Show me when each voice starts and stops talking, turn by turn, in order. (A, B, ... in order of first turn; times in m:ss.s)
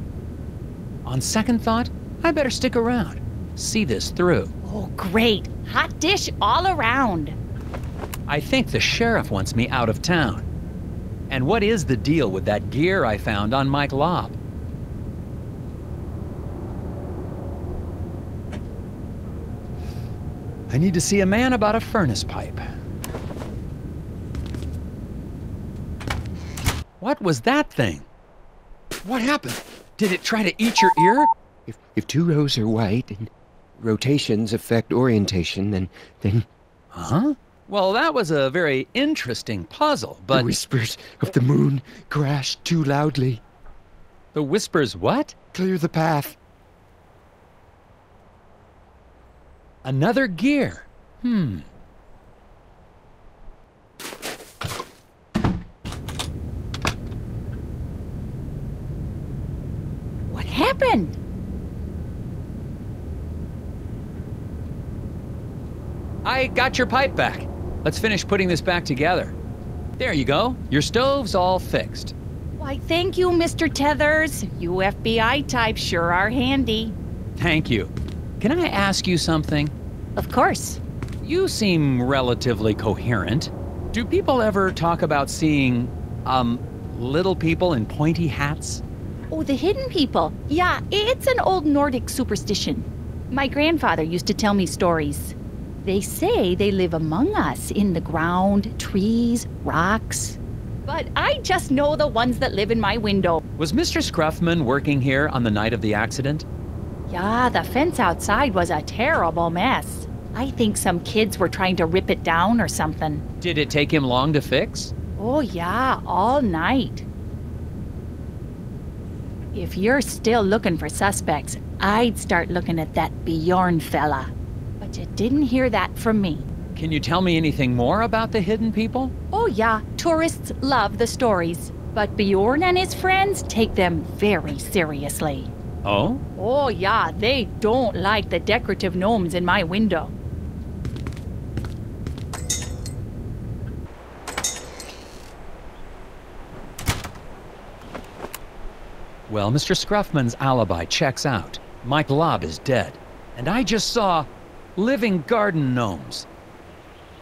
0:01.0-0:04.5 A
0:04.6-0:07.4 B
0:08.3-0:10.5 A
0:11.3-0:14.4 A
0:20.7-0:22.7 A
0:27.0-0:28.0 A
0:29.0-0:31.3 A
0:31.7-0:36.4 C
0:36.9-0:40.4 A
0:40.3-0:43.4 C
0:44.3-0:45.4 A
0:45.5-0:46.4 C
0:49.8-0:51.6 A
1:00.3-1:01.2 B
1:06.2-1:09.4 A
1:10.0-1:12.1 A
1:12.6-1:17.0 B
1:17.4-1:19.7 A
1:20.2-1:20.8 B
1:21.2-1:28.8 A
1:29.3-1:43.4 B
1:43.6-1:46.4 A
1:47.1-1:53.2 B
1:53.4-1:54.9 A
1:55.2-1:57.0 B
1:59.5-2:06.5 B
2:06.7-2:09.1 A
2:09.3-2:15.5 B
2:15.8-2:16.2 A
2:16.4-2:20.1 B
2:29.3-2:36.3 A